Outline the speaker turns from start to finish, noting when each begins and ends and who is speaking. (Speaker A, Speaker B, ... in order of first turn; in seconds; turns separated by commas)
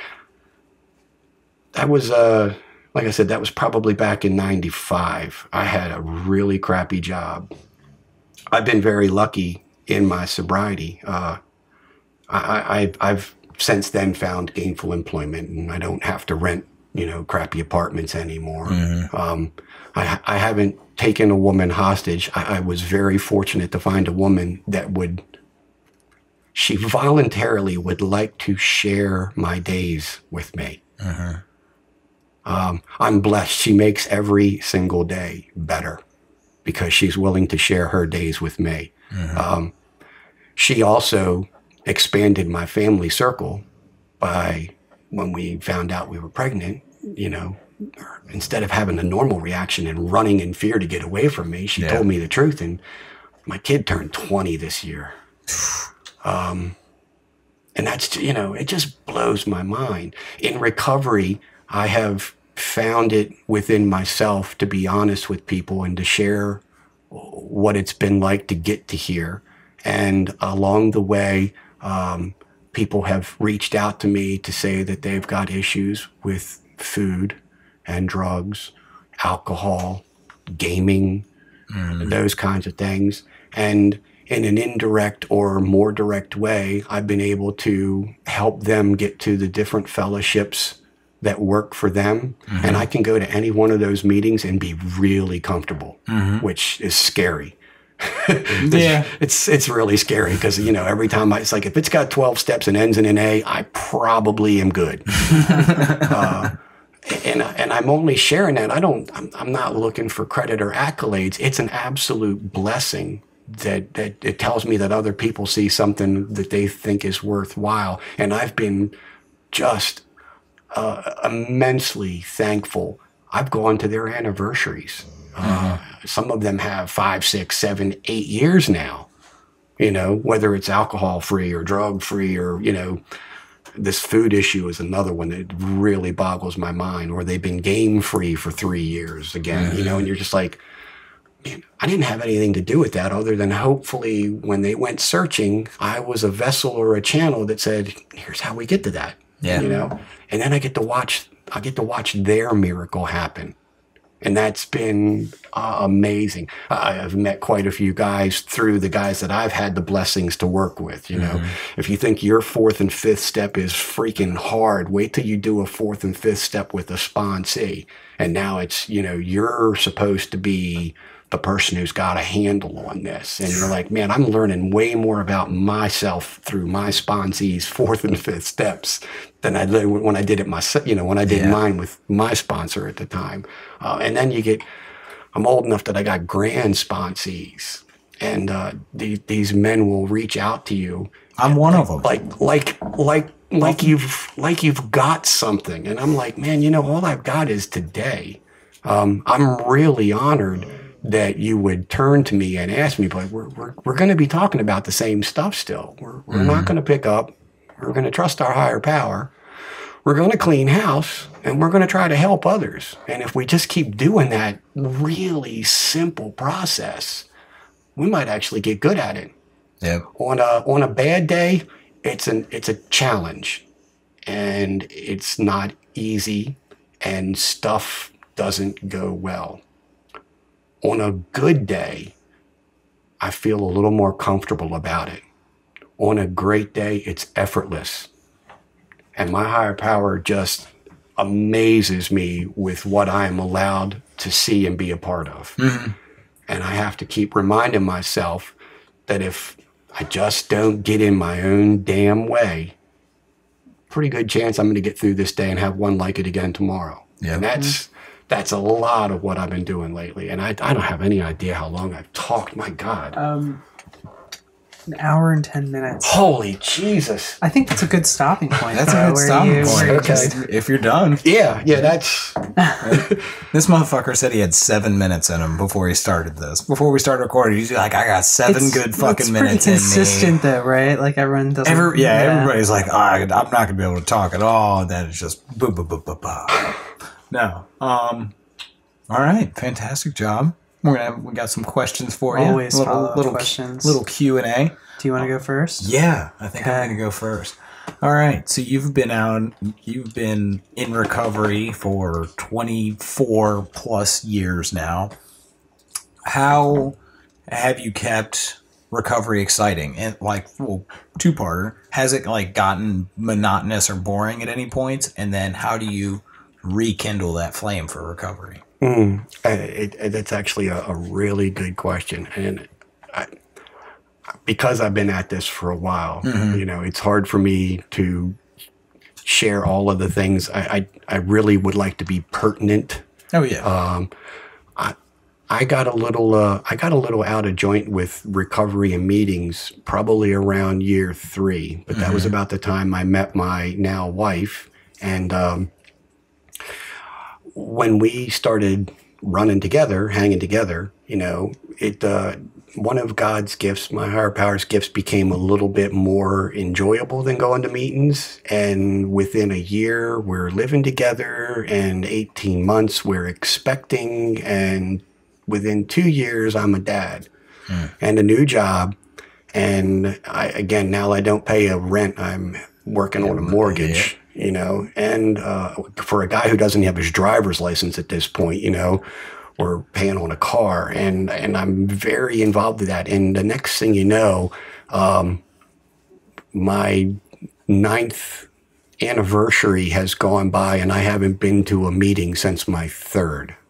Speaker A: 1.7-7.5, Speaker A: 8.5-11.4, Speaker A: 12.3-25.2, Speaker B: 18.7-19.1, Speaker A: 26.6-30.8, Speaker B: 31.0-31.4, Speaker A: 32.5-36.0, Speaker A: 36.6-39.7, Speaker B: 39.1-39.4, Speaker A: 40.6-43.6, Speaker A: 44.2-52.8, Speaker B: 51.8-52.0, Speaker A: 53.5-55.1, Speaker A: 56.2-56.8, Speaker A: 57.8-81.3, Speaker B: 81.7-82.1, Speaker A: 82.0-118.9, Speaker B: 92.5-92.9, Speaker B: 96.1-96.5, Speaker B: 98.6-99.1, Speaker B: 105.4-106.1, Speaker A: 119.5-120.0, Speaker A: 120.7-129.1, Speaker B: 125.4-125.8, Speaker A: 129.8-133.0, Speaker A: 133.8-140.6, Speaker B: 139.5-140.0, Speaker A: 141.4-153.6, Speaker C: 149.5-149.9, Speaker A: 154.2-184.6, Speaker B: 161.1-161.5, Speaker B: 181.3-181.6, Speaker A: 185.3-209.3, Speaker B: 191.4-192.1, Speaker B: 206.3-206.7, Speaker A: 210.1-217.3, Speaker A: 218.0-219.3, Speaker A: 220.1-223.6, Speaker A: 224.3-229.6, Speaker A: 230.8-232.1, Speaker A: 233.2-235.2, Speaker A: 236.0-238.1, Speaker A: 239.1-245.6, Speaker B: 245.6-245.9, Speaker A: 246.5-248.6, Speaker A: 249.1-252.8, Speaker A: 253.9-263.2, Speaker C: 263.1-263.6, Speaker C: 264.9-266.2, Speaker A: 266.0-267.4, Speaker C: 267.4-270.4, Speaker B: 268.7-271.2, Speaker A: 269.6-270.3, Speaker A: 271.2-273.2, Speaker B: 272.8-280.4, Speaker C: 278.5-282.5, Speaker B: 281.6-288.3, Speaker B: 289.1-305.1, Speaker C: 292.3-294.0, Speaker C: 295.0-295.9, Speaker C: 296.6-297.0, Speaker B: 306.2-307.0, Speaker B: 307.5-318.6, Speaker A: 318.8-323.3, Speaker A: 324.5-328.4, Speaker B: 326.2-326.6, Speaker A: 329.2-333.1, Speaker B: 333.3-333.7, Speaker A: 333.6-334.1, Speaker A: 335.5-345.7, Speaker B: 341.9-342.3, Speaker A: 347.5-367.3, Speaker A: 368.0-368.9, Speaker A: 369.5-379.0, Speaker B: 373.4-374.1, Speaker A: 379.6-385.4, Speaker A: 386.5-387.2, Speaker A: 387.7-388.5, Speaker A: 389.0-393.6